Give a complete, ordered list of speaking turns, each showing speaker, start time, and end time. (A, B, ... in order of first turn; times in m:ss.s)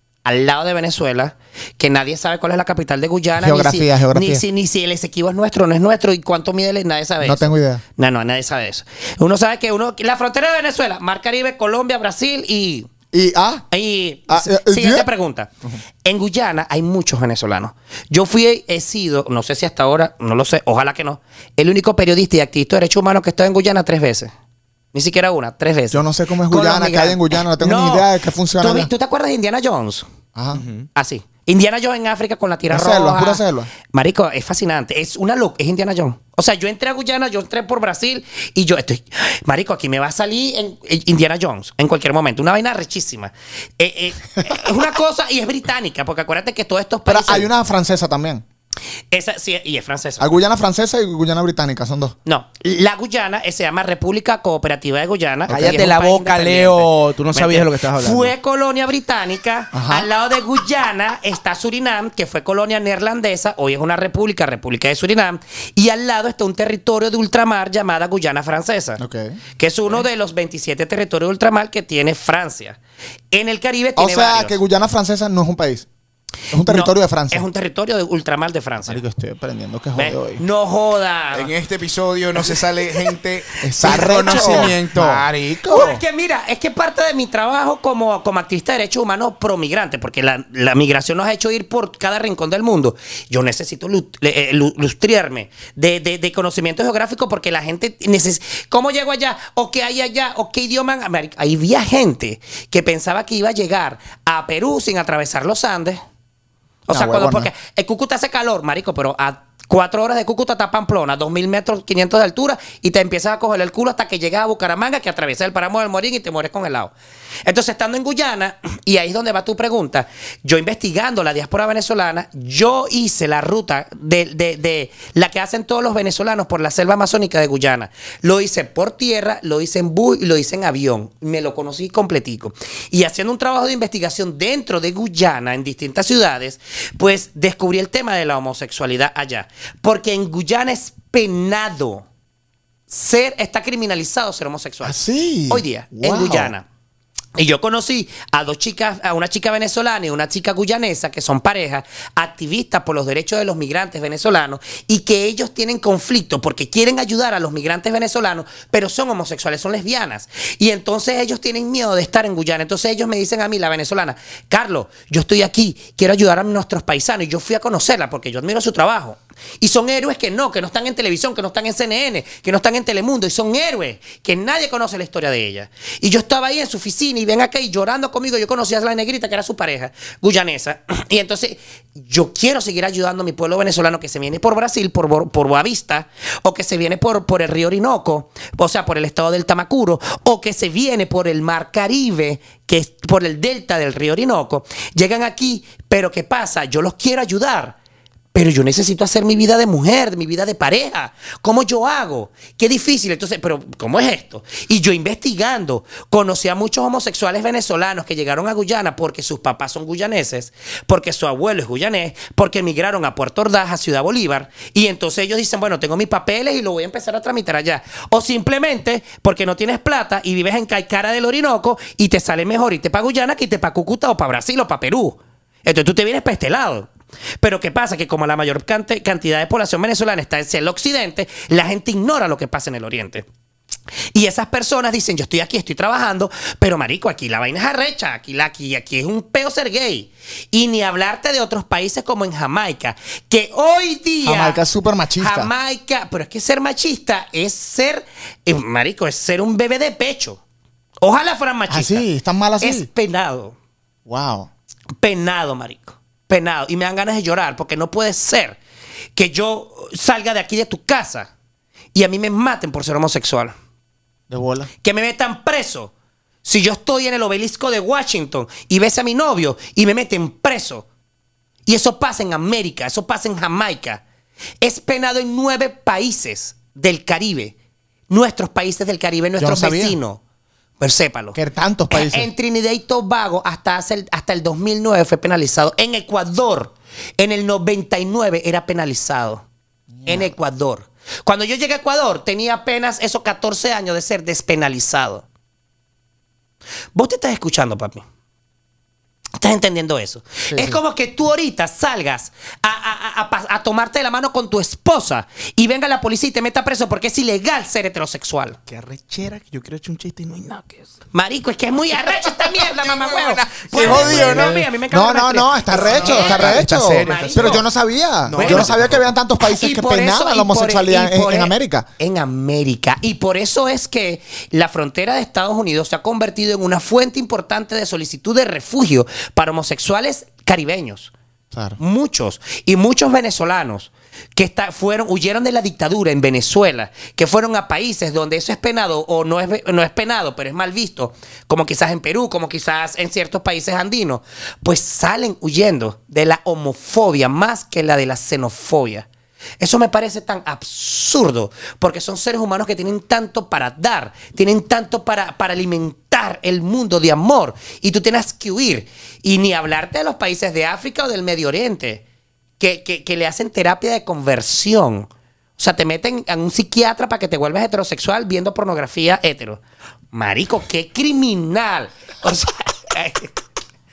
0:00.2-0:12.9 A
0:03.4-0:04.4 B
0:07.2-0:07.8 B
0:13.1-0:13.6 B
0:13.7-0:15.5 A
0:14.3-0:15.1 B
0:16.0-0:24.3 A
0:24.9-0:30.1 A
0:25.9-0:28.9 B
0:30.4-0:30.6 B
0:30.5-0:30.9 C
0:31.0-0:47.5 A
0:32.7-0:33.7 B
0:47.1-0:48.4 B
0:49.1-0:50.3 A
0:50.2-0:52.2 B
0:52.3-1:09.0 A
0:55.5-0:55.8 B
0:55.5-0:58.3 C
0:59.7-1:00.1 B
1:09.0-1:09.4 B
1:09.6-1:12.8 A
1:13.3-1:14.6 A
1:14.0-1:15.9 B
1:16.5-1:17.4 B
1:16.6-1:19.0 A
1:18.9-1:20.4 B
1:20.0-1:21.5 A
1:21.3-1:26.0 C
1:23.6-1:25.9 B
1:23.8-1:24.8 A
1:25.7-1:46.0 A
1:46.9-1:56.9 A
1:46.9-1:47.5 B
1:57.5-2:22.1 A
2:22.9-2:26.7 A
2:24.8-2:26.5 B
2:27.4-3:17.8 A
3:18.3-3:53.3 A
3:54.1-4:04.6 A
4:04.2-4:05.5 B
4:05.2-4:10.4 A
4:11.0-4:12.0 A
4:11.7-4:12.9 B
4:12.6-4:13.6 A
4:14.1-4:14.5 B
4:15.0-4:18.6 A
4:19.2-4:21.3 A
4:22.0-4:23.5 A
4:24.3-4:24.7 B
4:24.8-4:25.9 A
4:26.4-4:30.9 A
4:31.7-4:34.0 A
4:34.6-4:37.6 A
4:38.1-4:40.2 A
4:39.4-4:40.0 B
4:40.8-4:41.4 A
4:41.3-4:42.3 B
4:41.9-4:49.4 A
4:50.0-4:50.3 B
4:50.1-4:55.2 A
4:57.0-4:58.0 A
4:59.4-5:08.6 A
5:00.5-5:00.8 B
5:08.7-5:10.9 C
5:11.1-5:17.6 A
5:12.0-5:14.7 C
5:13.7-5:21.9 B
5:15.7-5:17.6 C
5:18.3-5:19.1 C
5:18.4-5:18.7 A
5:19.4-5:31.1 A
5:31.5-5:31.8 B
5:31.8-5:49.1 A
5:49.6-6:02.0 A
6:02.6-6:09.6 A
6:10.1-6:13.3 A